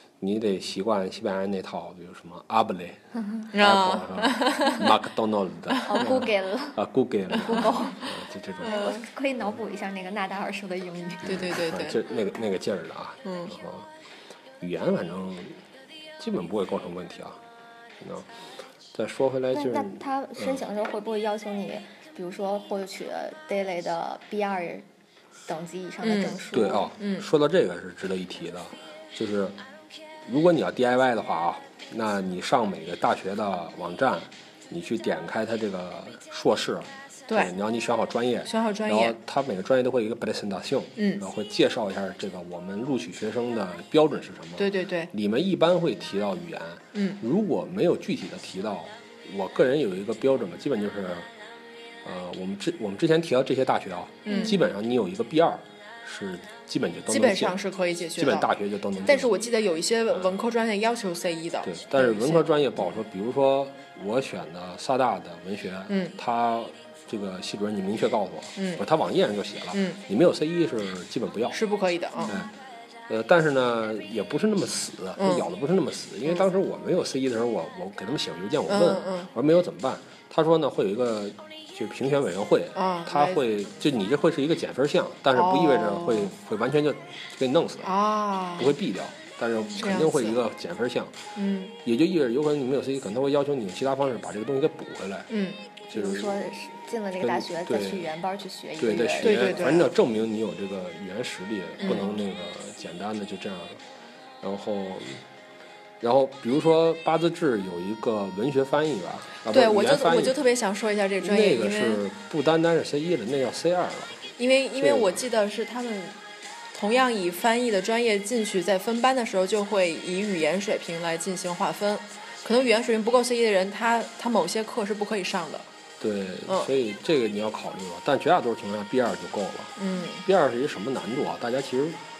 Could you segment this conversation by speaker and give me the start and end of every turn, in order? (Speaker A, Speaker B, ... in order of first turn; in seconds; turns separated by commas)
Speaker A: 0.2-3.0, Speaker B: 3.5-4.9, Speaker A: 3.5-8.8, Speaker C: 5.8-8.1, Speaker C: 8.6-11.6, Speaker B: 8.6-9.0, Speaker A: 11.2-13.9, Speaker B: 11.3-12.0, Speaker B: 13.2-13.5, Speaker A: 14.6-15.6, Speaker A: 16.2-17.4, Speaker A: 18.0-18.3, Speaker A: 18.9-20.6, Speaker C: 19.5-24.9, Speaker C: 25.4-26.9, Speaker B: 26.0-27.3, Speaker A: 26.5-29.6, Speaker A: 30.2-51.3, Speaker B: 38.5-39.2, Speaker B: 41.0-41.2, Speaker B: 44.6-45.1, Speaker B: 46.9-47.2, Speaker A: 52.0-57.6, Speaker B: 54.2-54.6, Speaker B: 57.1-58.5, Speaker A: 58.1-59.3, Speaker B: 59.0-62.5, Speaker A: 60.1-60.4, Speaker A: 61.6-71.6, Speaker B: 65.9-66.2, Speaker B: 68.5-68.8, Speaker B: 69.7-70.0, Speaker B: 71.5-72.3, Speaker A: 72.2-72.5, Speaker A: 73.1-88.0, Speaker B: 75.2-75.5, Speaker B: 78.7-79.3, Speaker B: 82.7-83.4, Speaker B: 85.3-86.3, Speaker B: 87.8-88.8, Speaker A: 88.5-91.2, Speaker B: 89.8-90.4, Speaker B: 91.3-91.8, Speaker A: 91.8-95.3, Speaker B: 95.3-95.6, Speaker A: 95.9-96.4, Speaker C: 95.9-99.8, Speaker A: 97.2-98.1, Speaker A: 98.8-103.8, Speaker B: 99.2-99.9, Speaker B: 101.8-102.1, Speaker A: 104.4-105.2, Speaker A: 106.0-110.4, Speaker B: 109.5-112.0, Speaker A: 111.2-114.2, Speaker B: 114.4-116.2, Speaker A: 114.8-115.2, Speaker B: 116.7-125.7, Speaker A: 126.0-132.0, Speaker B: 129.8-130.2